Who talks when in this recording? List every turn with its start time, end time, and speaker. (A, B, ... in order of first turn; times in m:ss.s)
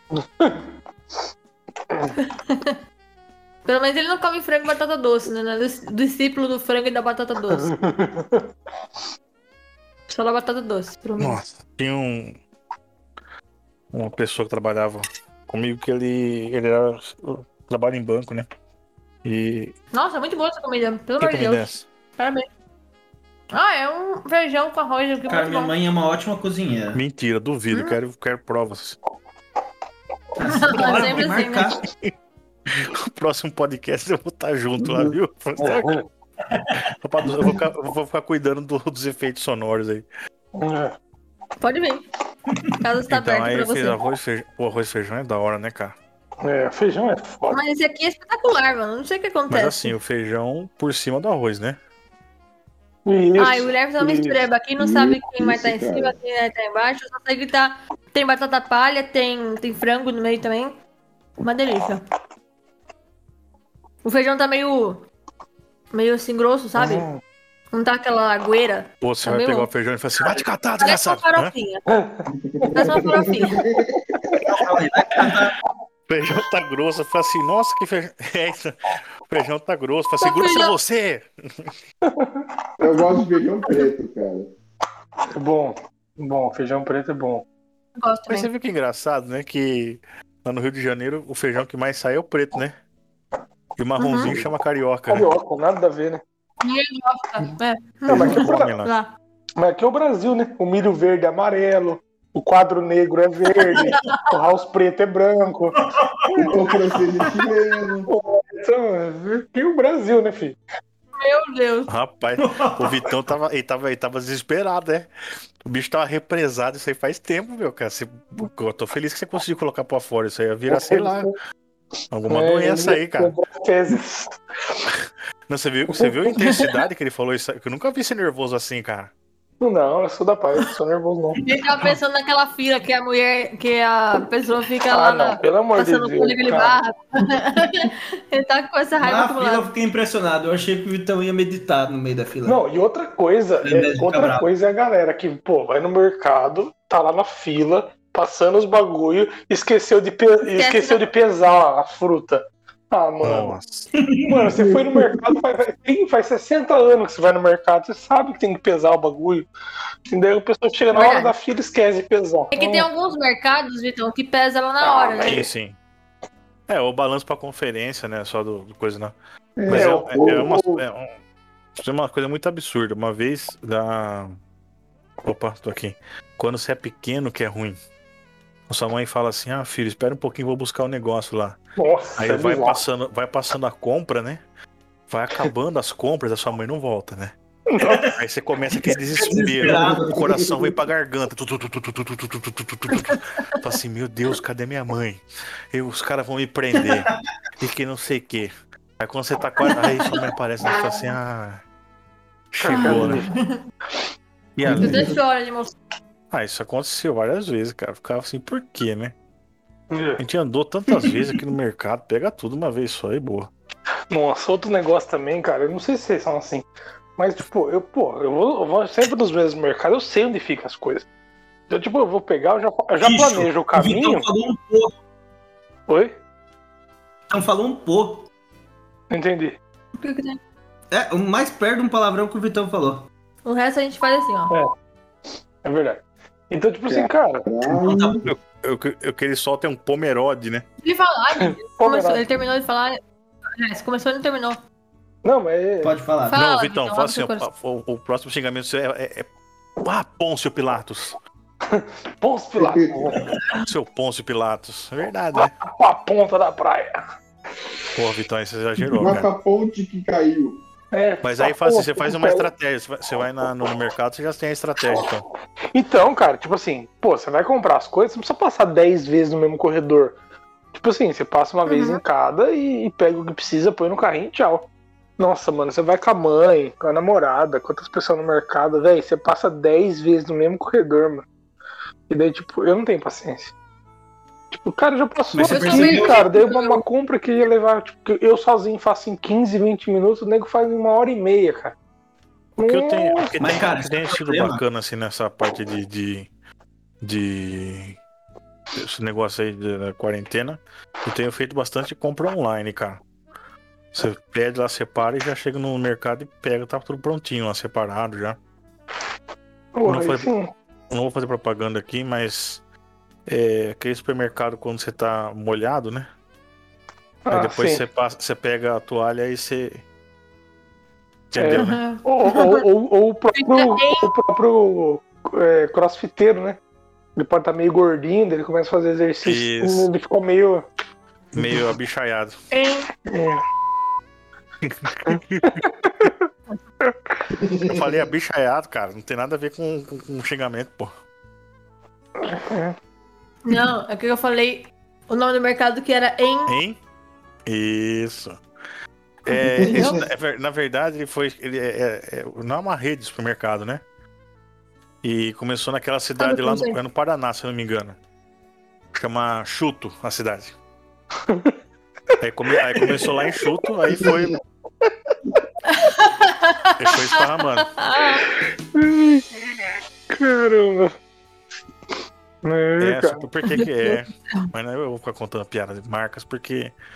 0:00.1-0:00.6 A
0:02.2-0:02.8 B
0:03.7-0:07.8 B
0:07.5-0:08.5 A
0:10.1-0:11.4 B
0:11.2-0:12.4 C
0:13.9-0:18.5 C
0:19.2-0:19.7 C
0:19.9-0:22.5 B
0:21.2-0:21.8 C
0:23.5-0:25.8 B
0:25.3-0:27.0 D
0:26.9-0:29.0 C
0:30.4-0:31.8 D
0:30.4-0:31.7 B
0:31.8-0:32.1 C
0:32.8-0:36.0 C
0:34.8-0:35.1 E
0:35.6-0:36.0 A
0:36.5-0:36.8 D
0:36.8-0:40.1 C
0:40.6-0:41.0 A
0:41.6-0:42.0 B
0:42.8-0:44.0 B
0:43.1-0:46.0 C
0:46.4-0:47.6 A
0:47.5-0:49.9 B
0:49.5-0:51.8 C
0:53.1-0:54.4 A
0:53.4-1:00.8 B
0:54.8-0:56.2 E
1:01.4-1:02.0 B
1:04.0-1:05.0 B
1:05.9-1:07.1 B
1:06.8-1:07.2 A
1:07.7-1:09.7 B
1:09.0-1:11.5 C
1:10.8-1:11.8 B
1:11.9-1:13.2 A
1:12.4-1:14.5 E
1:12.7-1:13.6 B
1:14.5-1:15.6 D
1:16.1-1:21.7 C
1:20.2-1:20.8 B
1:22.0-1:22.5 A
1:22.8-1:24.5 E
1:25.3-1:27.4 A
1:28.0-1:28.5 B
1:28.3-1:32.8 C
1:33.8-1:35.3 C
1:34.0-1:34.3 B
1:35.1-1:36.2 A
1:36.6-1:39.1 B
1:38.1-1:38.9 C
1:38.1-1:38.7 A
1:39.6-1:45.8 A
1:43.7-1:44.2 B
1:45.8-1:46.5 D
1:46.3-1:46.6 A
1:46.4-1:48.1 E
1:48.1-1:50.6 A
1:51.2-1:51.9 B
1:51.9-1:55.1 C
1:52.4-1:53.0 D
1:55.6-2:01.3 C
2:00.7-2:01.3 A
2:02.1-2:03.4 C
2:02.3-2:04.9 A
2:04.9-2:09.1 C
2:05.9-2:06.7 A
2:09.6-2:11.4 A
2:11.4-2:19.7 B
2:14.9-2:16.8 A
2:19.0-2:22.6 D
2:22.4-2:33.6 A
2:23.6-2:24.5 D
2:30.5-2:31.0 B
2:33.2-2:33.9 C
2:34.0-2:34.5 D
2:34.3-2:39.5 A
2:34.6-2:35.2 E
2:40.1-2:42.9 A
2:40.9-2:41.3 B
2:42.5-2:45.4 B
2:44.8-2:45.5 A
2:45.3-2:45.8 C
2:46.7-2:49.2 C
2:49.6-2:50.5 E
2:49.7-2:50.8 A
2:49.7-2:51.1 C
2:51.8-2:54.4 C
2:55.2-2:57.8 C
2:58.7-3:01.6 C
3:01.8-3:02.8 A
3:02.2-3:04.4 C
3:05.1-3:07.3 C
3:07.7-3:08.1 A
3:07.8-3:08.2 D
3:08.2-3:21.6 C
3:09.0-3:10.3 D
3:16.8-3:17.2 D
3:22.5-3:23.3 C
3:22.6-3:23.3 A
3:22.7-3:23.6 B
3:24.6-3:25.2 C
3:24.7-3:25.1 E
3:24.8-3:25.8 B
3:26.3-3:29.2 C
3:29.9-3:30.2 A
3:30.2-3:33.5 C
3:34.1-3:36.7 A
3:37.2-3:41.1 A
3:41.7-3:44.3 A
3:43.0-3:44.9 D
3:45.9-3:46.2 A
3:47.3-3:48.3 D
3:49.1-3:49.6 A
3:50.0-3:50.4 B
3:50.9-3:53.1 D
3:53.4-3:54.6 B
3:55.6-3:57.4 A
3:56.9-3:58.3 E
3:57.7-3:58.2 D
3:58.2-4:00.6 C
4:00.8-4:03.0 B
4:01.4-4:02.2 A
4:03.6-4:04.6 B
4:05.2-4:05.9 A
4:05.8-4:06.4 D
4:06.3-4:07.5 B
4:06.3-4:09.3 C
4:09.8-4:11.2 C
4:11.7-4:13.3 A
4:12.6-4:13.2 E
4:13.6-4:15.5 C
4:15.4-4:17.0 A
4:18.0-4:19.3 C
4:19.0-4:20.6 E
4:20.9-4:22.5 A
4:21.2-4:25.2 C
4:25.7-4:30.2 A
4:30.7-4:34.7 A
4:31.7-4:32.0 B
4:35.2-4:41.2 A
4:42.1-4:43.5 A
4:44.5-4:51.8 A
4:45.3-4:46.2 D
4:45.4-4:46.8 B
4:52.6-4:53.4 A
4:52.6-4:56.3 C
4:53.4-4:54.6 D
4:57.0-4:58.0 C
4:58.7-5:03.0 C
5:03.9-5:08.4 C
5:09.8-5:10.5 A
5:09.8-5:10.3 C
5:10.9-5:12.6 C
5:13.3-5:16.1 C
5:17.2-5:17.8 A
5:17.3-5:19.8 C
5:21.3-5:21.8 C
5:21.4-5:26.6 A
5:21.5-5:22.6 B
5:23.4-5:24.1 B
5:27.2-5:30.6 A
5:29.2-5:29.9 C
5:31.4-5:32.4 C
5:32.5-5:32.9 B
5:33.1-5:33.4 A
5:34.6-5:35.6 C
5:35.1-5:36.3 A
5:36.8-5:37.2 A
5:37.3-5:38.1 E
5:37.7-5:40.9 C
5:42.2-5:42.8 A
5:43.4-5:46.6 B
5:46.5-5:46.8 C
5:47.5-5:48.4 C
5:49.2-5:53.8 C
5:49.6-5:50.0 E
5:49.7-5:50.0 B
5:55.0-5:58.0 C
5:56.2-5:56.8 B
5:58.9-6:00.6 C
6:01.3-6:01.6 A
6:02.2-6:04.4 C
6:05.7-6:08.3 B
6:06.8-6:07.7 C
6:08.7-6:11.0 A
6:12.4-6:13.2 A
6:12.8-6:16.7 C
6:13.5-6:14.5 B